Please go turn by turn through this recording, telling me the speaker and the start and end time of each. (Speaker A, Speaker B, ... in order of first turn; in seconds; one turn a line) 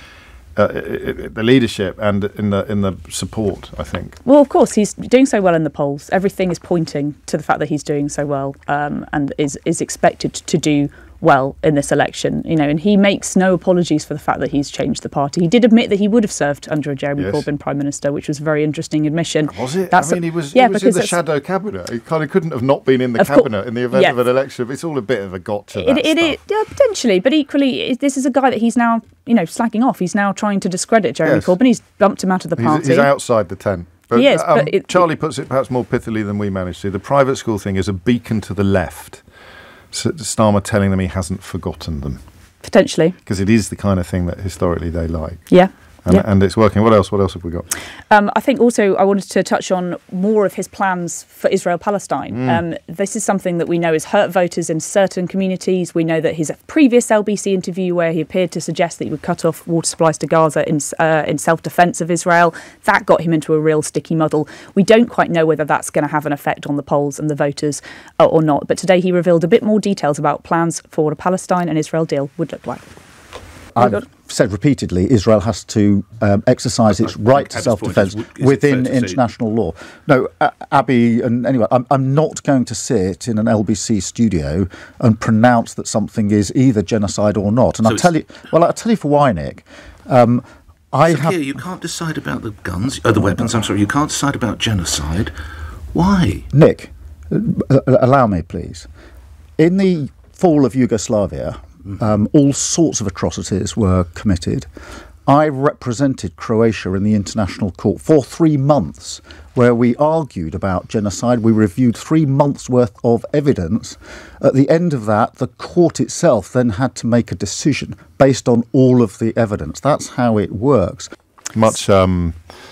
Speaker A: 0.6-4.2
Speaker B: 4.2-21.2
Speaker A: 17.2-17.5
Speaker A: 19.5-26.4
Speaker B: 23.2-24.2
Speaker B: 25.8-33.1
Speaker A: 31.2-31.5
Speaker A: 32.6-39.2
Speaker B: 34.1-35.0
Speaker A: 39.9-42.2
Speaker B: 42.6-43.2
Speaker A: 43.2-45.5
Speaker B: 45.5-46.3
Speaker A: 46.1-47.7
Speaker B: 48.1-72.8
Speaker A: 52.3-52.6
Speaker C: 73.8-91.4
Speaker D: 76.9-79.2
Speaker D: 87.8-88.1
Speaker D: 91.1-95.3
Speaker C: 93.1-93.5
Speaker D: 95.9-96.5
Speaker C: 96.5-98.9
Speaker C: 99.6-104.7
Speaker C: 105.3-121.1
Speaker A: 121.5-122.4